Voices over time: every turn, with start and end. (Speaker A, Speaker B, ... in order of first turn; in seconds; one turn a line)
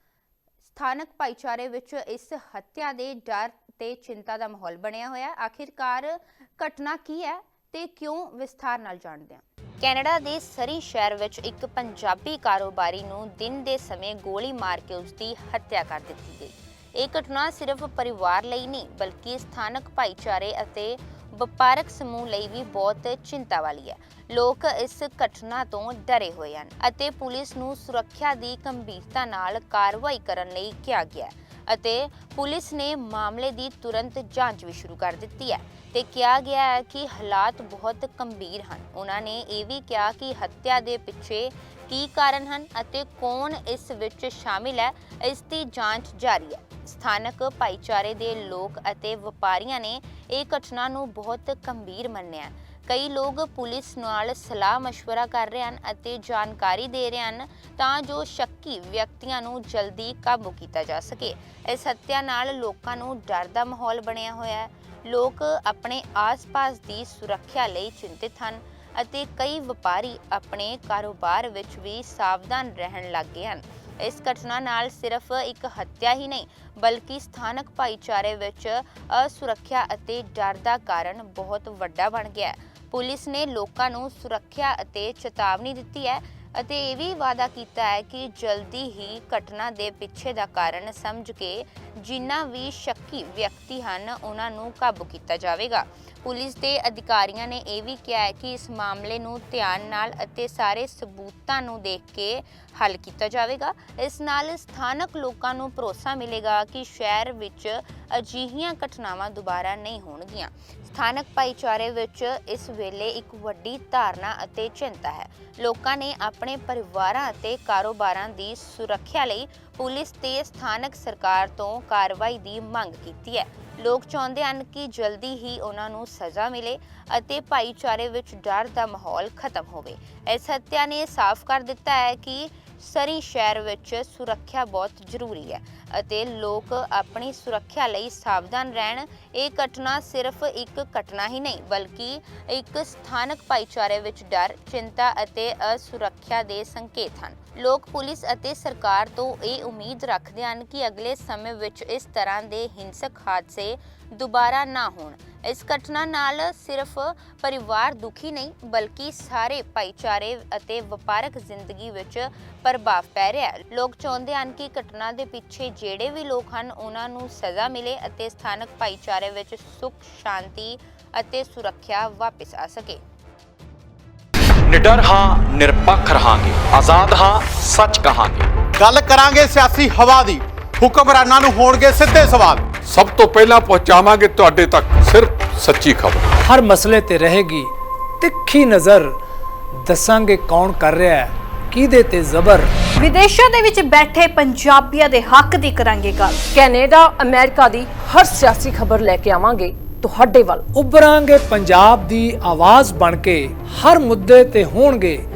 Speaker A: 0.6-173.0
Speaker B: 174.7-178.5
Speaker C: 178.8-182.7
Speaker D: 182.9-186.2
Speaker E: 186.4-189.1
Speaker E: 189.8-192.7
Speaker F: 193.0-196.4
Speaker G: 196.4-200.7
Speaker E: 200.7-205.2